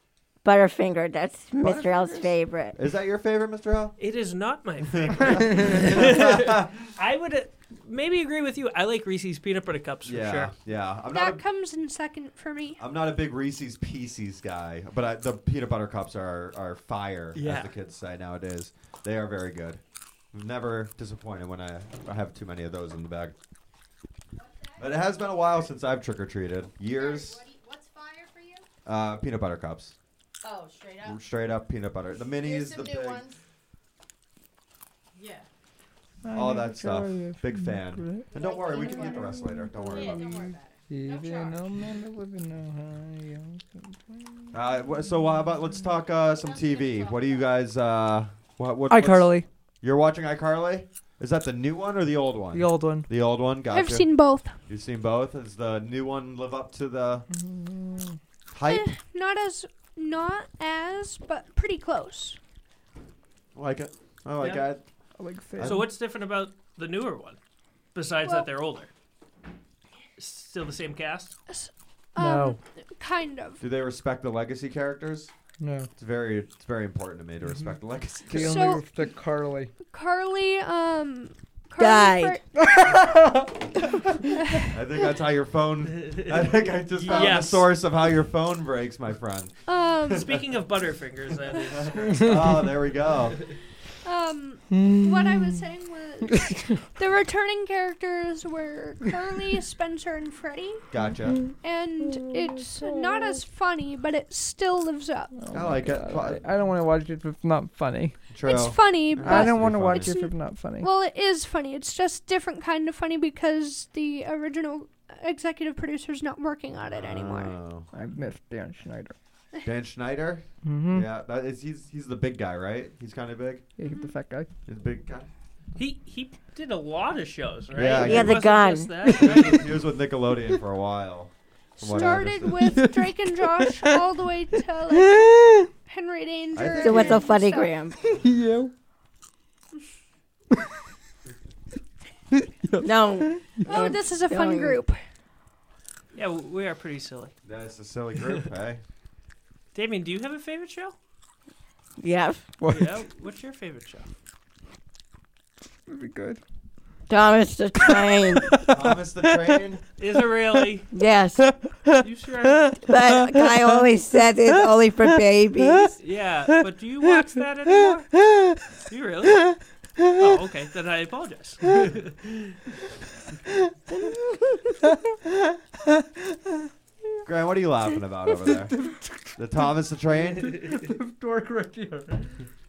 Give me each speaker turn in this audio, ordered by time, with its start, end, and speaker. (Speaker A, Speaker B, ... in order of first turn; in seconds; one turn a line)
Speaker A: 0.4-2.8
Speaker B: 1.6-4.0
Speaker C: 4.0-10.5
Speaker B: 4.9-6.9
Speaker B: 10.1-11.4
Speaker D: 11.1-12.8
Speaker B: 12.8-19.8
Speaker C: 17.4-17.7
Speaker B: 20.3-23.3
Speaker E: 24.4-25.7
Speaker B: 24.8-27.4
Speaker E: 26.9-28.6
Speaker B: 28.9-29.9
Speaker E: 30.4-31.2
Speaker B: 31.0-33.2
Speaker E: 32.3-33.4
Speaker E: 35.1-35.5
Speaker F: 36.2-44.5
Speaker B: 36.3-40.4
Speaker E: 38.3-41.7
Speaker B: 44.5-54.1
Speaker E: 46.2-47.6
Speaker F: 48.9-49.5
Speaker F: 52.5-53.1
Speaker D: 53.7-54.6
Speaker B: 54.6-57.3
Speaker F: 57.3-58.2
Speaker B: 58.5-58.9
Speaker D: 58.7-62.4
Speaker B: 63.5-64.8
Speaker C: 64.4-64.7
Speaker F: 65.2-65.8
Speaker B: 65.6-65.9
Speaker C: 65.6-67.4
Speaker C: 67.9-68.9
Speaker C: 70.2-71.3
Speaker D: 71.5-73.6
Speaker F: 72.2-72.6
Speaker B: 73.6-75.3
Speaker F: 75.6-75.9
Speaker B: 76.0-78.8
Speaker C: 77.5-77.7
Speaker F: 78.3-79.7
Speaker D: 78.3-78.8
Speaker D: 79.9-82.5
Speaker A: 81.8-82.4
Speaker F: 82.6-84.7
Speaker B: 84.6-90.4
Speaker C: 86.0-87.7
Speaker D: 89.7-90.3
Speaker C: 90.1-93.2
Speaker B: 91.8-93.4
Speaker D: 94.0-100.8
Speaker F: 94.7-95.6
Speaker F: 96.3-96.8
Speaker B: 100.9-101.4
Speaker F: 101.3-103.4
Speaker D: 101.6-105.3
Speaker F: 105.4-108.2
Speaker B: 105.5-106.4
Speaker B: 108.3-110.2
Speaker D: 108.4-117.5
Speaker F: 109.2-110.9
Speaker B: 116.9-117.9
Speaker F: 117.9-119.2
Speaker B: 119.6-123.7
Speaker F: 120.6-121.1
Speaker F: 123.8-124.5
Speaker D: 123.9-124.1
Speaker B: 124.7-125.3
Speaker C: 125.8-129.7
Speaker B: 127.7-128.4
Speaker A: 128.0-128.9
Speaker B: 129.1-132.8
Speaker D: 131.8-135.3
Speaker F: 132.6-134.0
Speaker F: 134.9-135.7
Speaker D: 135.9-137.7
Speaker B: 136.6-137.3
Speaker A: 136.8-138.0
Speaker F: 138.0-138.7
Speaker F: 142.3-143.9
Speaker A: 142.8-144.8
Speaker D: 143.7-145.0
Speaker C: 146.1-147.3
Speaker B: 147.4-148.8
Speaker C: 149.7-150.9
Speaker A: 152.0-152.5
Speaker F: 152.6-153.0
Speaker C: 152.7-154.1
Speaker F: 155.9-156.4
Speaker A: 157.1-158.6
Speaker F: 157.8-159.6
Speaker B: 158.7-159.8
Speaker C: 160.0-160.9
Speaker A: 160.9-161.4
Speaker F: 161.4-162.1
Speaker C: 162.0-162.8
Speaker F: 162.6-163.8
Speaker A: 162.8-165.9
Speaker F: 164.5-165.9
Speaker C: 166.0-168.1
Speaker F: 167.9-168.8
Speaker C: 168.9-172.6
Speaker F: 169.4-170.2
Speaker F: 173.9-176.1
Speaker B: 177.2-180.6
Speaker F: 178.7-179.3
Speaker F: 180.4-182.3